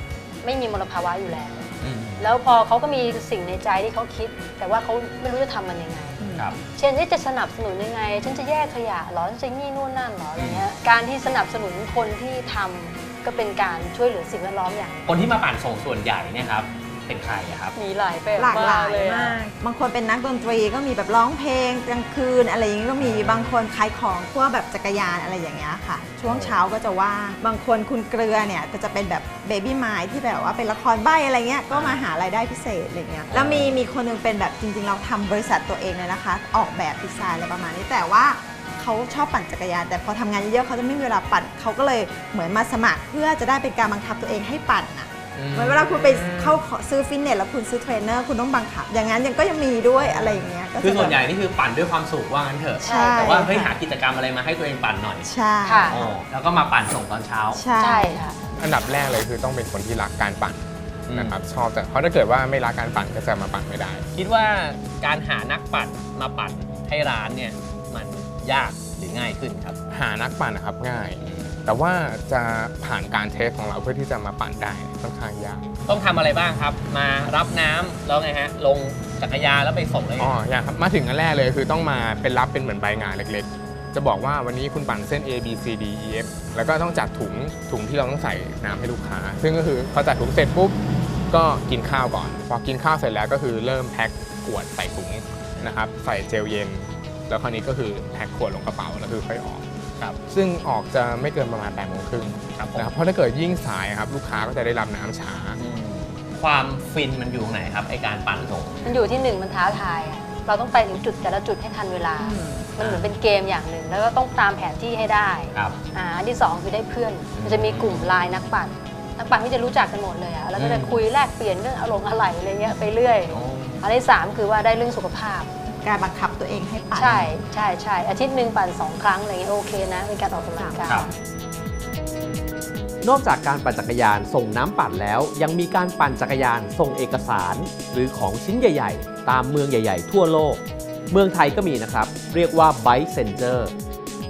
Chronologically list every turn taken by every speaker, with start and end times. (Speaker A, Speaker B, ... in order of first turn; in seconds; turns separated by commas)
Speaker A: 0.4-15.2, Speaker B: 1.8-2.3, Speaker C: 6.2-6.5, Speaker B: 10.4-10.7, Speaker B: 15.1-17.8, Speaker A: 17.8-19.4, Speaker C: 18.4-51.2, Speaker B: 23.0-23.6, Speaker B: 26.2-26.6, Speaker B: 31.7-32.0, Speaker B: 33.3-33.8, Speaker B: 45.4-46.6, Speaker B: 50.0-55.3, Speaker C: 52.8-53.8, Speaker A: 52.8-53.3, Speaker C: 55.2-56.1, Speaker A: 55.6-56.1, Speaker B: 55.9-57.6, Speaker C: 57.5-58.2, Speaker A: 57.8-58.5, Speaker D: 58.6-64.1, Speaker B: 61.1-61.4, Speaker B: 64.2-69.8, Speaker D: 69.9-75.7, Speaker B: 71.2-71.6, Speaker B: 75.9-80.4, Speaker D: 80.2-90.8, Speaker D: 91.3-99.6, Speaker D: 100.2-105.6, Speaker B: 102.5-102.9, Speaker B: 105.6-109.0, Speaker A: 108.8-125.5, Speaker C: 112.2-112.7, Speaker B: 112.8-113.2, Speaker B: 117.3-118.4, Speaker B: 120.6-121.0, Speaker B: 123.3-123.8, Speaker C: 125.7-127.3, Speaker A: 126.9-131.1, Speaker B: 127.0-127.4, Speaker C: 130.5-131.1, Speaker E: 133.0-143.7